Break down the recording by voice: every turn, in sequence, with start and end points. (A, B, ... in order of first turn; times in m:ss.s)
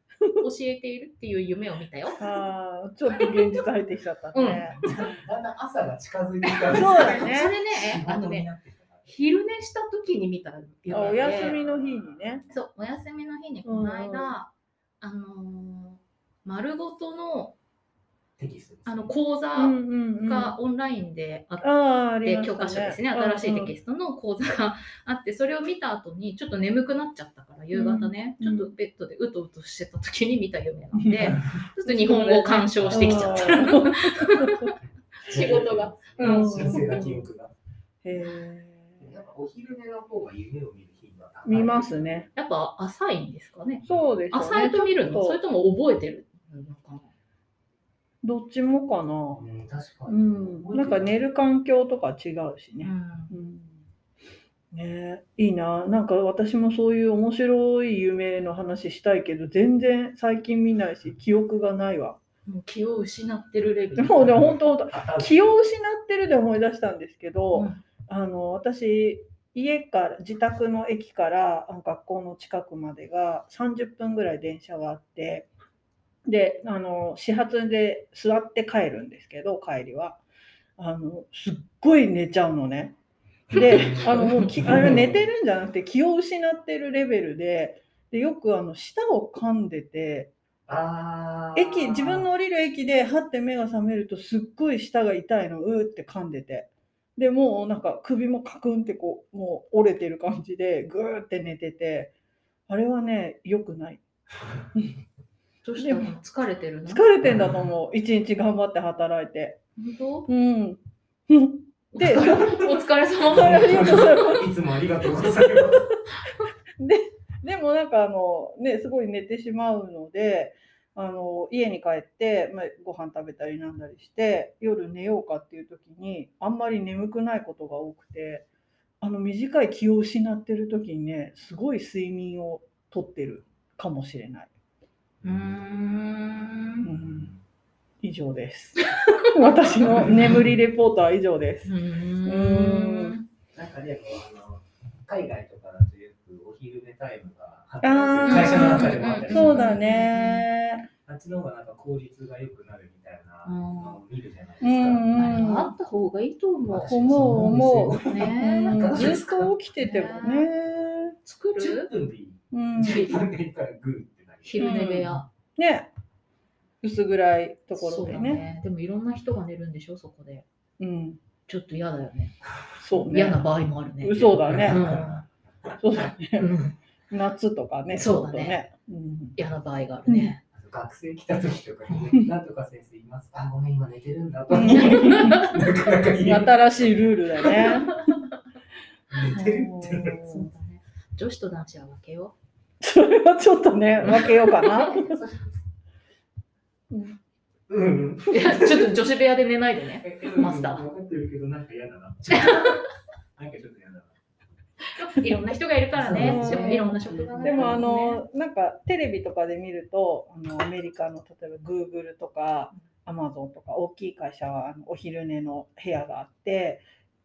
0:00.3-0:02.3 A
0:02.2-0:04.8 B
0:03.0-0:03.6 A
0:04.3-0:04.8 A
0:04.8-0:09.1 C
0:06.5-0:08.5 A
0:06.7-0:07.5 B
0:09.0-0:11.6 A
0:10.9-0:12.4 B
0:10.9-0:12.4 C
0:12.5-0:14.5 A
0:13.6-0:14.3 B
0:15.0-0:17.6 A
0:18.4-0:19.1 C
0:18.8-0:37.2 A
0:19.5-0:20.6 B
0:21.6-0:23.7 B
0:27.7-0:28.7 B
0:30.9-0:34.7 B
0:32.7-0:34.0 C
0:35.2-0:37.5 C
0:36.2-0:37.1 B
0:38.0-0:39.1 B
0:39.0-0:42.3 C
0:41.4-0:42.3 B
0:42.4-0:47.1 A
0:43.8-0:45.4 B
0:48.2-0:49.4 B
0:49.3-0:51.2 C
0:50.1-0:53.8 B
0:52.8-0:53.3 A
0:54.7-1:02.2 B
1:02.4-1:04.3 A
1:04.0-1:15.5 B
1:04.1-1:05.6 C
1:07.5-1:07.8 A
1:16.2-1:20.2 B
1:20.8-1:22.9 B
1:23.5-1:30.3 B
1:23.6-1:25.3 C
1:30.7-1:32.3 C
1:31.5-1:42.1 B
1:42.7-1:44.0 B
1:45.6-1:47.0 A
1:45.8-1:46.1 B
1:46.8-1:49.6 B
1:49.8-1:50.3 A
1:50.3-1:52.6 B
1:51.9-1:54.4 A
1:53.3-1:56.0 C
1:53.3-1:54.4 B
1:56.8-2:08.4 B
2:09.0-2:14.5 B
2:15.2-2:15.6 C
2:15.2-2:16.9 A
2:16.8-2:17.3 B
2:17.0-2:17.4 C
2:18.0-2:23.2 B
2:19.0-2:19.5 A
2:20.0-2:20.4 C
2:21.6-2:23.2 A
2:23.5-2:29.8 C
2:27.8-2:30.9 B
2:28.2-2:30.5 A
2:31.0-2:35.4 C
2:33.4-2:34.0 A
2:34.6-2:35.7 B
2:35.1-2:37.5 A
2:36.7-2:39.5 C
2:36.7-2:41.2 B
2:38.0-2:40.5 A
2:41.2-2:41.9 A
2:41.6-2:44.8 C
2:42.5-2:43.2 B
2:44.4-2:45.3 A
2:44.6-2:45.9 B
2:46.8-2:48.4 B
2:47.7-2:50.4 A
2:50.8-2:51.2 B
2:51.5-2:52.4 A
2:52.8-2:53.4 B
2:53.1-2:55.2 A
2:54.0-2:55.0 B
2:54.2-2:55.2 C
2:55.8-2:56.5 B
2:56.4-2:56.8 A
2:57.1-2:59.4 B
2:57.9-2:58.6 A
2:59.4-3:00.4 A
3:00.0-3:00.3 B
3:00.5-3:07.0 C
3:04.5-3:05.4 B
3:04.7-3:05.6 A
3:06.2-3:08.0 B
3:07.4-3:08.1 A
3:09.1-3:10.2 C
3:09.3-3:09.7 A
3:09.3-3:10.5 B
3:10.2-3:12.3 A
3:12.8-3:15.2 B
3:14.0-3:15.0 A
3:14.9-3:15.6 C
3:16.9-3:17.2 B
3:17.7-3:18.9 C
3:18.3-3:20.8 A
3:20.0-3:22.8 C
3:22.3-3:22.8 A
3:23.4-3:24.2 C
3:24.9-3:28.2 A
3:25.9-3:27.8 C
3:26.1-3:36.8 B